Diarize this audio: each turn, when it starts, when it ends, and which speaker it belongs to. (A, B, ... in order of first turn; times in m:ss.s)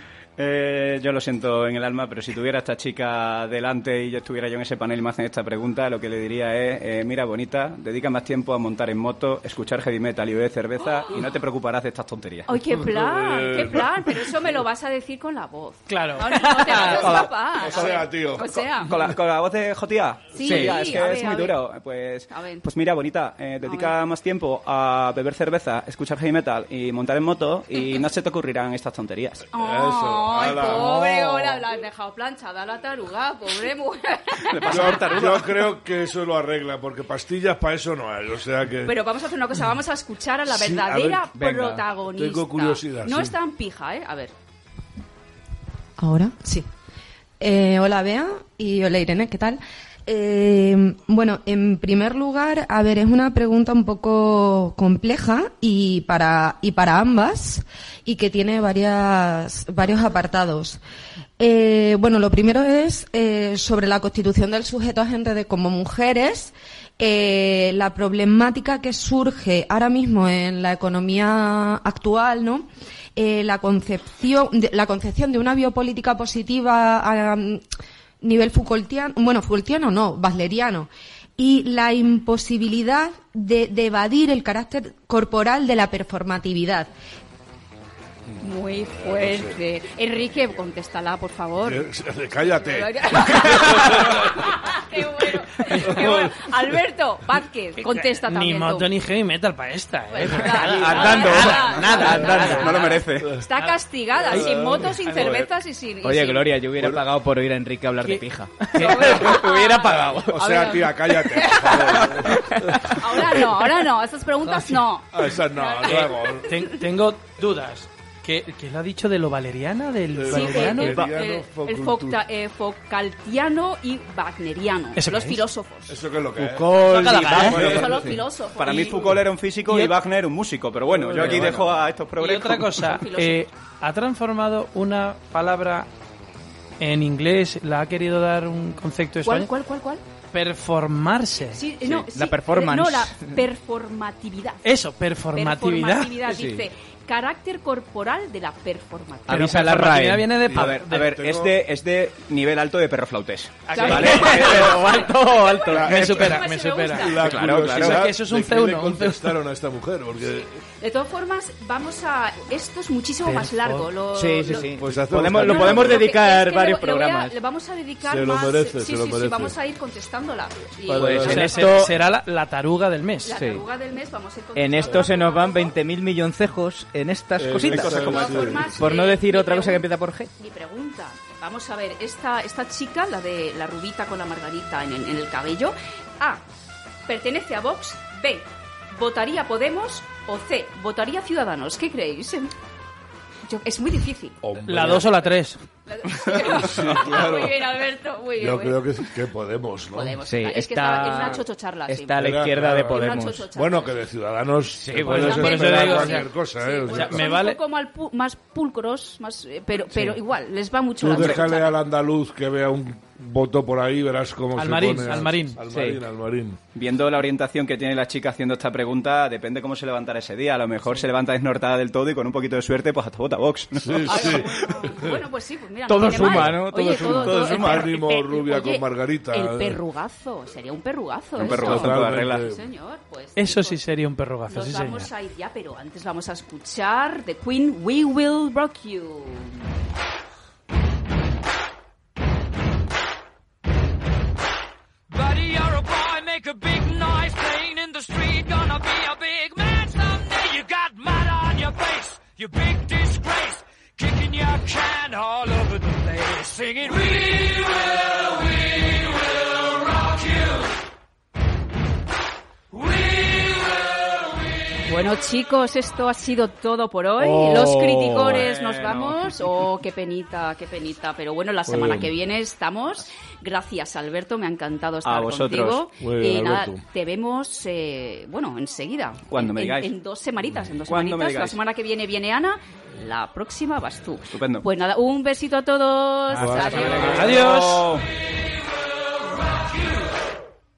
0:00.4-0:12.5 A
0:12.5-0:19.0 B
0:12.8-0:14.2 C
0:15.9-0:17.2 D
0:16.9-0:18.0 A
0:17.5-0:18.6 C
0:18.8-0:29.5 A
0:20.3-0:21.6 B
0:20.4-0:20.8 E
0:22.3-0:22.6 B
0:23.6-0:24.0 B
0:29.5-0:35.2 B
0:29.6-0:31.0 C
0:30.8-0:31.6 E
0:34.4-0:35.6 A
0:34.6-0:39.0 C
0:38.8-0:44.3 B
0:40.5-0:41.4 C
0:41.4-0:41.8 E
0:42.0-0:43.4 C
0:46.0-0:46.7 F
0:47.4-1:00.8 F
1:01.4-1:17.6 F
1:18.2-1:26.9 F
1:28.4-1:31.9 B
1:29.0-1:29.5 C
1:31.6-1:34.4 C
1:32.5-1:38.9 B
1:35.8-1:36.4 C
1:37.8-1:42.8 D
1:40.1-1:46.6 B
1:40.4-1:42.7 E
1:41.4-1:42.4 C
1:42.4-1:43.3 A
1:43.2-1:43.5 C
1:44.2-1:45.0 C
1:44.3-1:45.4 D
1:45.1-1:45.5 A
1:46.0-1:50.4 E
1:46.8-1:47.0 C
1:48.0-1:49.5 D
1:48.8-1:56.7 B
1:50.0-1:52.8 C
1:51.9-1:52.6 E
1:54.4-1:54.8 D
1:55.1-1:56.5 C
1:55.8-2:01.0 D
2:00.1-2:02.2 C
2:00.3-2:06.0 B
2:05.0-2:05.4 D
2:05.9-2:08.2 C
2:06.4-2:08.2 E
2:07.0-2:08.0 A
2:07.2-2:09.0 B
2:08.6-2:12.8 A
2:09.7-2:10.0 D
2:10.9-2:11.7 C
2:11.2-2:11.5 E
2:12.2-2:15.9 D
2:12.9-2:13.5 B
2:16.8-2:19.5 D
2:19.2-2:20.0 B
2:20.3-2:21.6 D
2:21.5-2:24.7 B
2:21.8-2:23.4 E
2:24.6-2:26.2 D
2:25.3-2:29.5 B
2:26.2-2:26.7 E
2:29.3-2:30.3 E
2:29.3-2:31.1 D
2:30.4-2:31.6 C
2:30.5-2:34.7 A
2:33.7-2:34.8 D
2:33.7-2:37.4 B
2:33.8-2:36.2 E
2:35.7-2:40.6 C
2:35.8-2:39.4 D
2:37.2-2:38.0 A
2:40.8-2:44.7 B
2:43.2-2:43.9 D
2:44.1-2:47.4 E
2:44.7-2:46.1 C
2:45.2-2:51.6 B
2:48.0-2:49.5 C
2:50.9-2:51.5 C
2:50.9-2:51.9 E
2:51.2-2:53.4 D
2:53.2-2:55.8 B
2:53.3-2:53.6 E
2:54.6-3:00.3 E
2:57.4-2:58.9 C
2:57.7-2:58.7 A
2:58.0-2:59.9 B
3:00.4-3:06.4 B
3:07.1-3:12.5 B
3:13.5-3:14.4 B
3:14.4-3:15.1 C
3:14.6-3:15.6 D
3:15.9-3:18.8 B
3:16.6-3:17.6 C
3:18.4-3:20.2 C
3:19.9-3:22.2 B
3:20.3-3:23.5 E
3:22.2-3:27.3 C
3:22.9-3:23.9 B
3:24.8-3:25.9 E
3:25.0-3:26.2 D
3:25.1-3:31.8 B
3:26.9-3:27.6 D
3:31.0-3:36.6 C
3:34.6-3:35.6 D
3:35.7-3:36.0 E
3:36.7-3:44.7 A
3:43.8-3:45.2 C
3:44.1-3:53.8 B
3:45.9-3:47.6 E
3:46.2-3:46.6 C
3:47.0-3:48.0 A
3:47.6-3:49.8 C
3:51.4-3:52.4 A
3:51.5-3:52.6 C
3:53.4-3:55.1 D
3:54.5-3:59.6 B
4:05.1-4:18.9 G
4:20.0-4:20.6 G
4:22.9-4:23.7 G
4:24.8-4:47.4 B
4:27.2-4:28.9 E
4:28.3-4:29.2 A
4:31.7-4:32.1 C
4:35.0-4:35.9 A
4:36.0-4:36.8 C
4:39.3-4:39.9 A
4:40.9-4:41.6 A
4:44.3-4:44.7 A
4:46.3-4:47.2 C
4:46.6-4:48.0 D
4:46.7-4:48.0 A